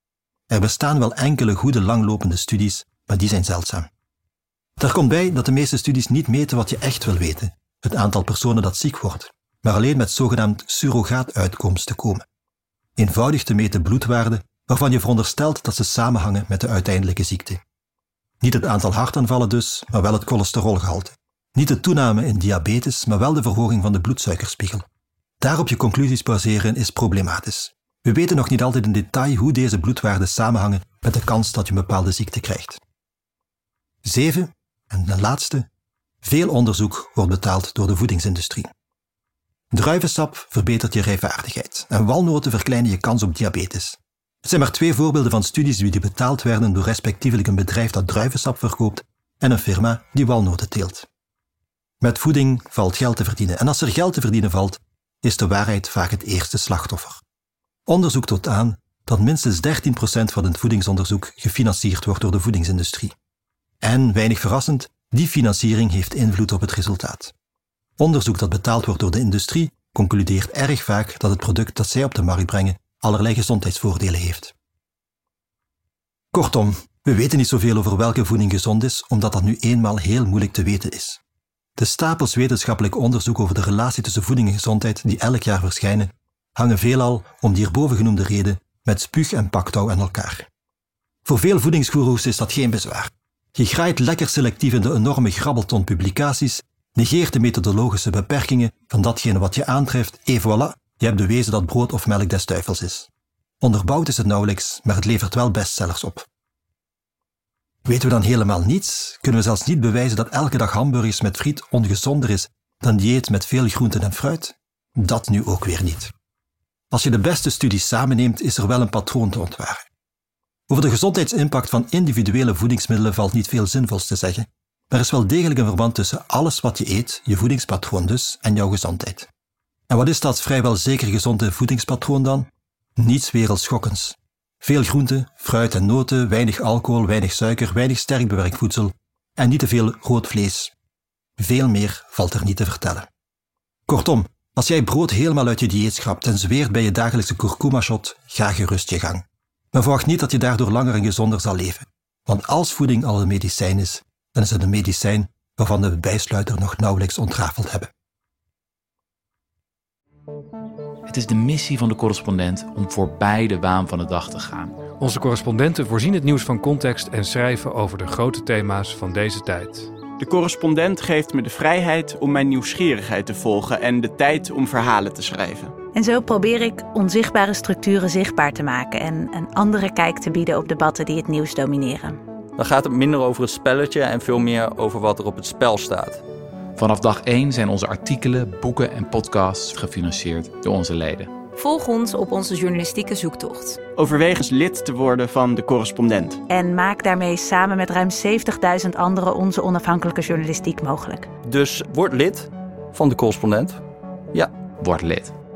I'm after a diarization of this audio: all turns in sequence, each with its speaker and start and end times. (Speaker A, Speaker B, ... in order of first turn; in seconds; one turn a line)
Speaker A: 0.5-3.9
Speaker A: 4.8-12.3
Speaker A: 13.0-17.6
Speaker A: 18.4-24.9
Speaker A: 25.4-32.8
Speaker A: 34.0-35.7
Speaker A: 36.2-38.7
Speaker A: 39.7-51.1
Speaker A: 52.0-57.2
Speaker A: 57.9-63.1
Speaker A: 63.8-67.3
Speaker A: 68.0-74.5
Speaker A: 76.3-81.2
Speaker A: 81.8-90.5
Speaker A: 91.2-103.1
Speaker A: 103.6-106.3
Speaker A: 107.9-116.1
Speaker A: 116.9-119.9
Speaker A: 120.7-129.3
Speaker A: 129.9-140.7
Speaker A: 141.4-143.1
Speaker A: 143.9-157.9
Speaker B: 161.1-164.9
Speaker C: 165.0-169.9
Speaker D: 170.2-175.7
Speaker E: 175.9-182.2
Speaker F: 182.6-186.1
Speaker B: 186.8-191.3
Speaker G: 191.6-193.8
Speaker D: 194.0-196.4
Speaker E: 196.5-201.3
Speaker F: 201.5-203.8
Speaker B: 204.8-205.3